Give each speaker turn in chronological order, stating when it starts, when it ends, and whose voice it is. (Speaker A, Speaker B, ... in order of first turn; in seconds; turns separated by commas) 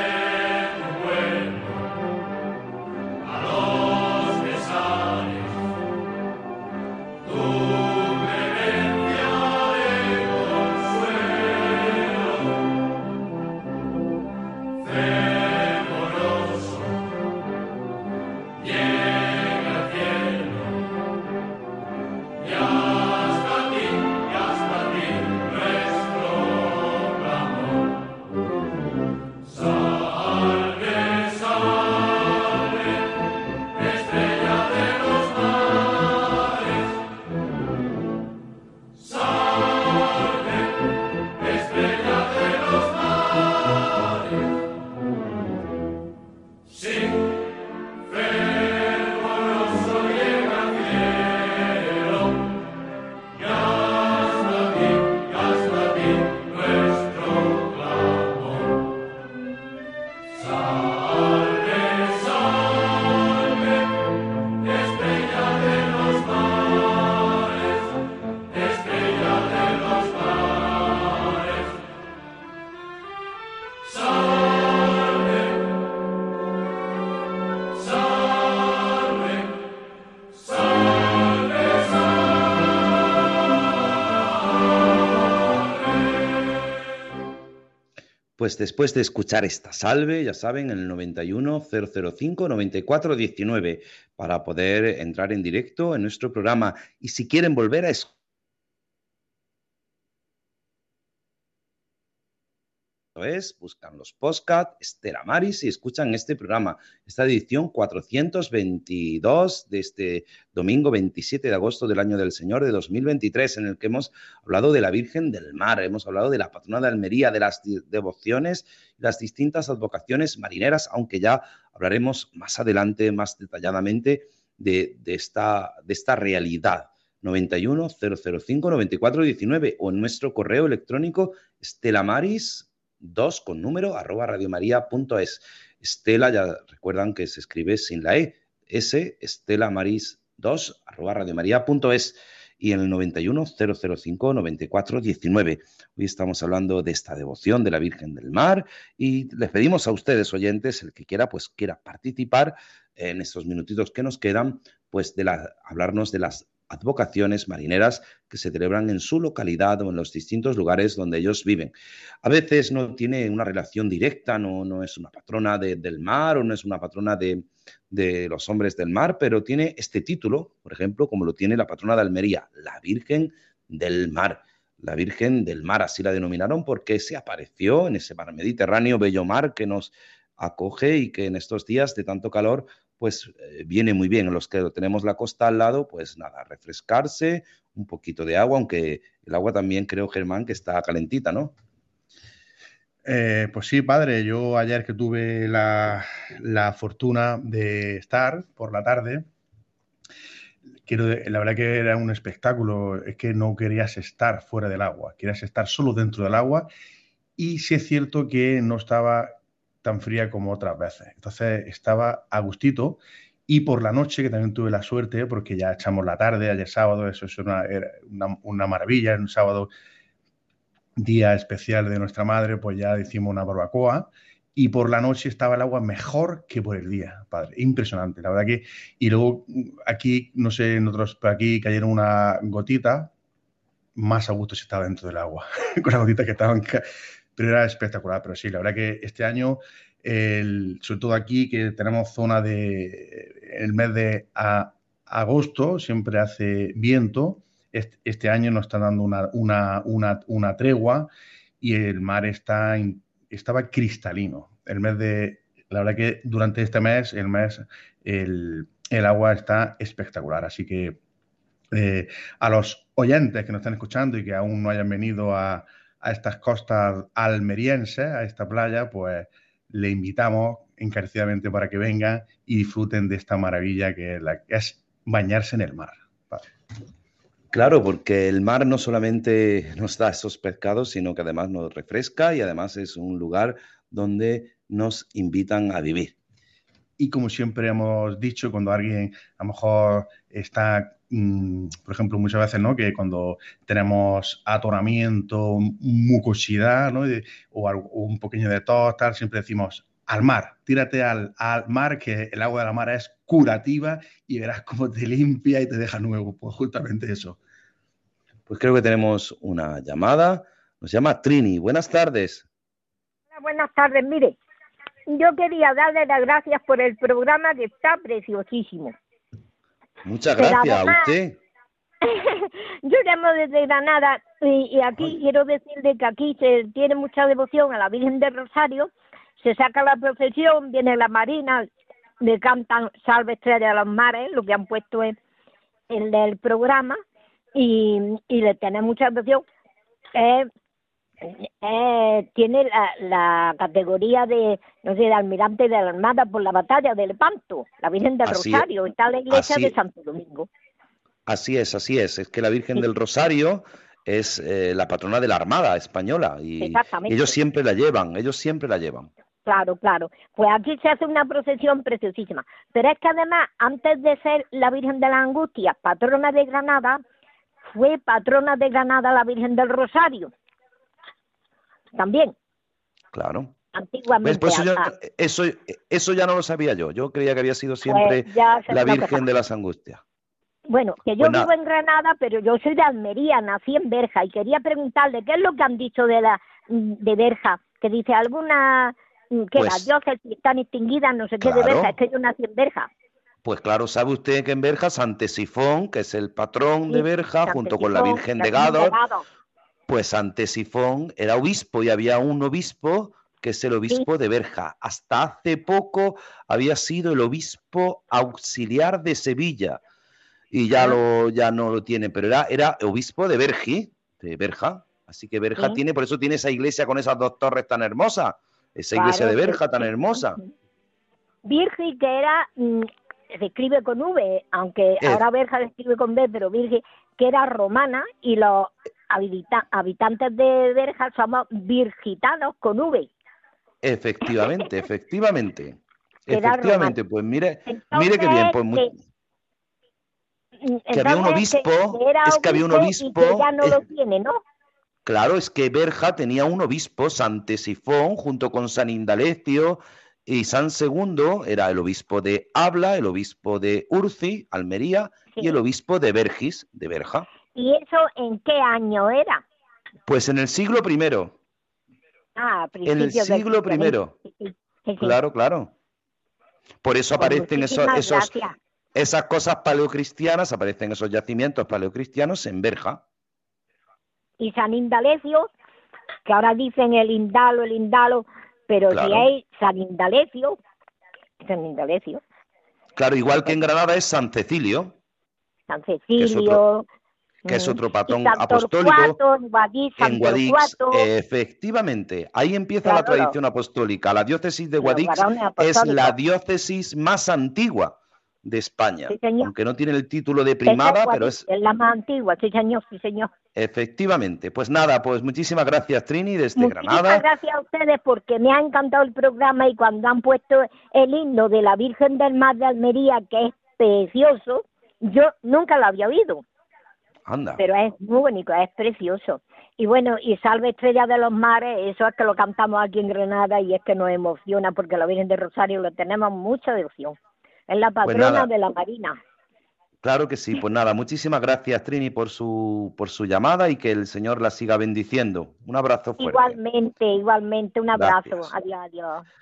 Speaker A: 88.4-98.1, Speaker A: 103.2-191.5, Speaker B: 193.1-199.3, Speaker B: 200.9-206.7, Speaker B: 207.4-209.3, Speaker B: 209.8-219.7, Speaker B: 221.0-233.1, Speaker B: 234.0-261.0, Speaker B: 261.7-276.5, Speaker A: 277.5-286.1, Speaker B: 287.0-307.4, Speaker A: 308.5-312.5, Speaker C: 313.3-314.4, Speaker C: 315.1-319.0, Speaker A: 320.0-321.4, Speaker C: 320.4-321.1, Speaker C: 322.0-331.7, Speaker C: 332.2-335.2, Speaker C: 335.9-337.0, Speaker C: 337.6-339.4, Speaker C: 340.1-340.5, Speaker C: 341.2-350.5, Speaker A: 348.2-348.7, Speaker A: 349.3-349.8, Speaker A: 351.3-359.1, Speaker C: 356.6-357.3, Speaker C: 359.5-367.0, Speaker C: 367.7-370.3, Speaker C: 371.9-372.4, Speaker A: 373.1-373.6, Speaker C: 373.7-374.9, Speaker A: 374.2-380.0, Speaker C: 377.9-379.2, Speaker C: 380.7-392.9, Speaker A: 381.2-381.5, Speaker A: 389.6-389.9, Speaker A: 391.4-391.9, Speaker A: 393.4-399.0, Speaker C: 396.9-399.2, Speaker A: 399.9-409.8, Speaker A: 410.5-420.4, Speaker C: 418.9-420.4, Speaker C: 421.4-433.1, Speaker A: 433.8-438.9, Speaker C: 436.3-437.0, Speaker C: 437.7-438.9, Speaker C: 440.6-444.4, Speaker A: 440.9-443.8, Speaker A: 445.1-457.3, Speaker C: 457.5-459.4, Speaker A: 460.1-461.4, Speaker C: 462.4-465.2, Speaker A: 462.9-464.2, Speaker A: 465.0-465.7, Speaker A: 466.8-468.3, Speaker C: 467.2-468.6, Speaker A: 468.9-473.0, Speaker C: 474.4-475.5, Speaker C: 476.3-480.6, Speaker A: 478.9-479.3, Speaker C: 481.4-482.2, Speaker A: 483.0-485.0, Speaker C: 485.7-486.9, Speaker A: 486.2-486.6, Speaker C: 487.4-491.1, Speaker A: 487.5-489.2, Speaker A: 490.0-501.5, Speaker C: 492.8-493.4, Speaker C: 494.8-496.2, Speaker C: 499.1-499.5, Speaker C: 500.6-503.3, Speaker A: 503.6-507.2, Speaker C: 506.6-516.4, Speaker A: 517.3-517.6, Speaker C: 517.6-527.2, Speaker C: 527.7-529.2, Speaker A: 528.0-528.5, Speaker A: 530.0-536.6, Speaker C: 536.2-539.3, Speaker A: 538.0-538.5